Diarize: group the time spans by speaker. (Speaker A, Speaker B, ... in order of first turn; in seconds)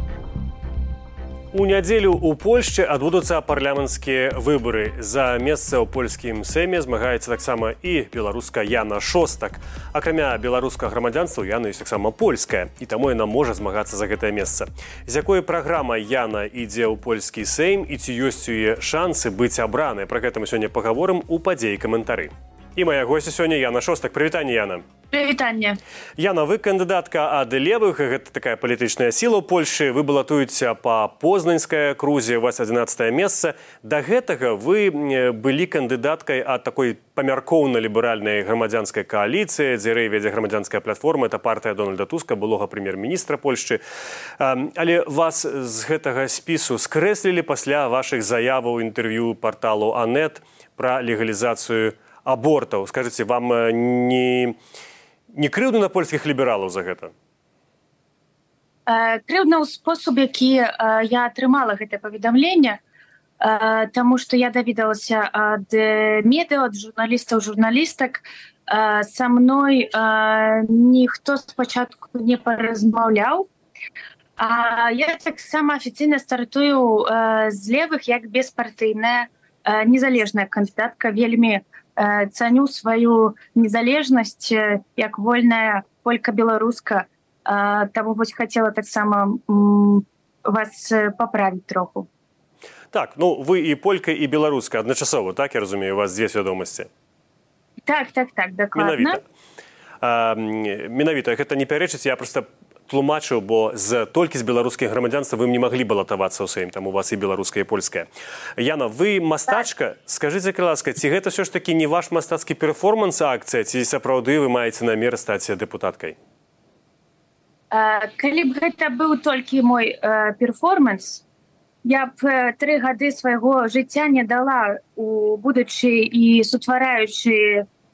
Speaker A: 1.5-24.8, 26.2-43.8, 44.4-54.6, 55.3-57.1, 92.9-96.9, 98.8-99.2, 100.0-108.1, 108.6-116.2
Speaker B: 25.1-25.8, 58.9-62.8, 63.4-73.5, 74.4-92.1, 97.9-99.2, 117.7-121.2, 121.8-127.7